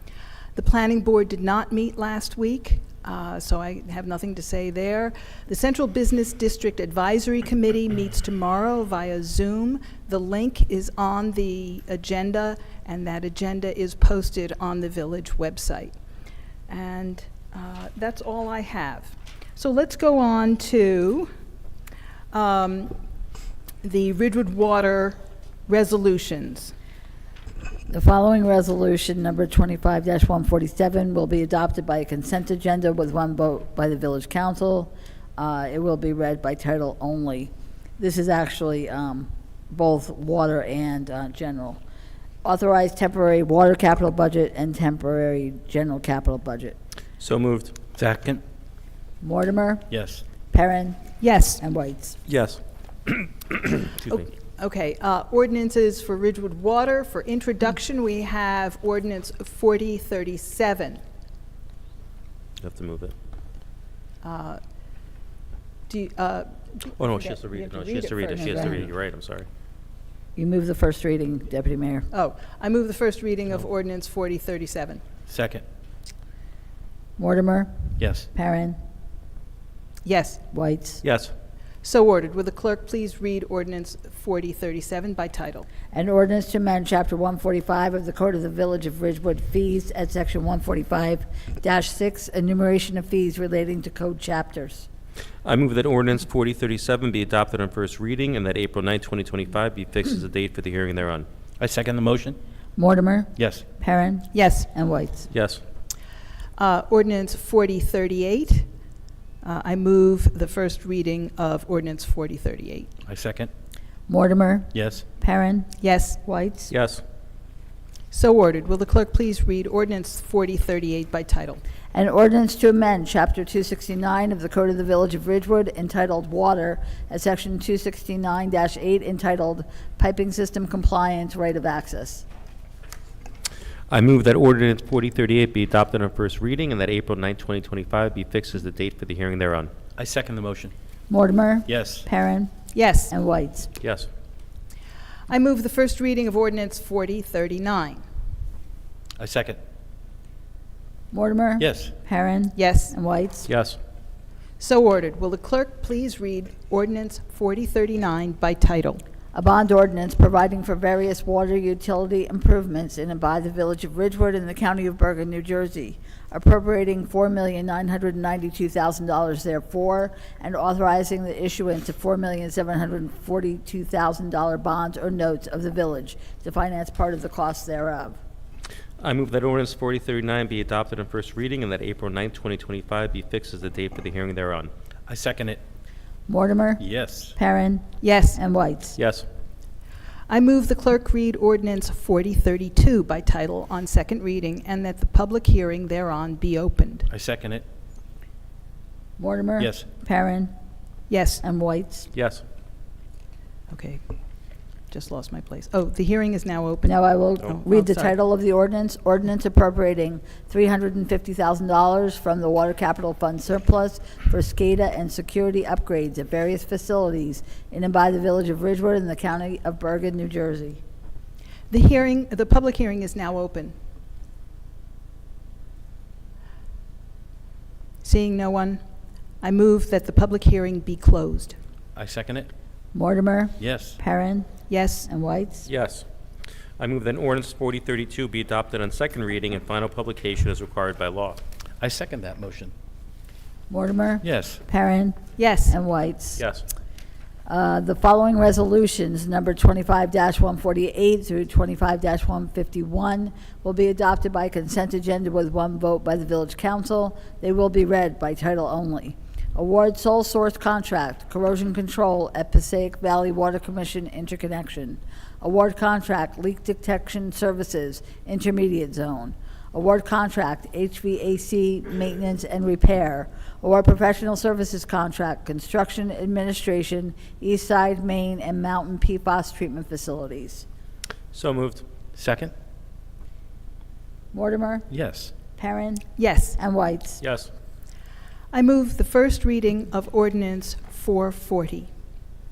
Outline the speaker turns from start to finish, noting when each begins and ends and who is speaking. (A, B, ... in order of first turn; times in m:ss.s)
0:00.5-0:16.0 A
0:16.7-0:21.3 A
0:22.3-0:23.0 A
0:23.8-0:26.7 A
0:27.9-0:41.8 B
0:42.4-0:46.8 B
0:47.2-0:47.7 C
0:48.0-0:48.4 D
0:49.2-0:49.9 B
0:49.9-0:50.2 D
0:50.5-0:51.0 B
0:51.2-0:51.6 A
0:51.6-0:52.2 B
0:52.3-0:53.8 C
0:54.1-1:01.0 A
1:02.6-1:03.1 C
1:04.2-1:04.6 A
1:05.9-1:08.8 A
1:07.0-1:09.5 C
1:08.4-1:08.8 B
1:10.4-1:12.1 B
1:12.1-1:15.0 A
1:15.3-1:15.6 D
1:17.2-1:18.8 B
1:18.0-1:18.3 D
1:20.0-1:20.4 A
1:20.5-1:21.0 B
1:21.0-1:21.3 C
1:21.8-1:25.7 A
1:25.9-1:34.9 B
1:35.4-1:41.3 C
1:41.6-1:42.4 D
1:42.8-1:45.3 B
1:43.4-1:43.6 D
1:44.3-1:44.7 A
1:45.3-1:45.6 C
1:46.6-1:48.7 A
1:49.4-1:52.9 A
1:53.0-1:53.5 D
1:54.1-1:56.7 B
1:54.7-1:55.0 D
1:55.8-1:56.2 A
1:56.7-1:57.0 C
1:58.1-2:01.6 A
2:01.9-2:12.2 B
2:13.9-2:19.7 C
2:20.0-2:20.7 D
2:21.1-2:23.7 B
2:21.7-2:22.0 D
2:22.7-2:23.1 A
2:23.8-2:24.1 C
2:25.3-2:28.0 A
2:29.2-2:29.6 D
2:31.1-2:33.5 B
2:31.6-2:31.9 D
2:32.6-2:32.9 A
2:33.4-2:33.8 C
2:34.6-2:39.0 A
2:39.3-2:58.2 B
2:59.0-3:04.7 C
3:05.1-3:05.6 D
3:06.3-3:06.8 B
3:06.8-3:07.4 D
3:07.4-3:09.0 B
3:08.0-3:08.4 A
3:09.0-3:09.3 C
3:10.3-3:17.1 A
3:17.1-3:17.6 D
3:19.2-3:20.5 B
3:19.6-3:19.9 D
3:21.1-3:21.4 A
3:21.4-3:22.1 B
3:22.1-3:22.4 C
3:23.7-3:24.0 A
3:24.9-3:28.1 A
3:26.8-3:40.8 B
3:41.7-3:43.7 A
3:48.0-3:48.8 A
3:49.4-3:51.6 A
3:51.9-3:52.5 D
3:52.9-3:54.5 B
3:53.6-3:54.0 D
3:54.7-3:55.1 A
3:55.0-3:55.7 B
3:55.6-3:56.0 C
3:56.8-4:01.4 C
4:01.8-4:02.7 D
4:03.7-4:06.4 B
4:04.2-4:04.6 D
4:05.4-4:05.8 A
4:06.4-4:06.6 C
4:07.4-4:40.6 B
4:41.3-4:41.8 C
4:42.1-4:42.5 D
4:44.3-4:44.9 B
4:44.9-4:45.3 D
4:45.6-4:47.2 B
4:46.2-4:46.6 A
4:47.2-4:47.5 C
4:48.5-4:51.9 A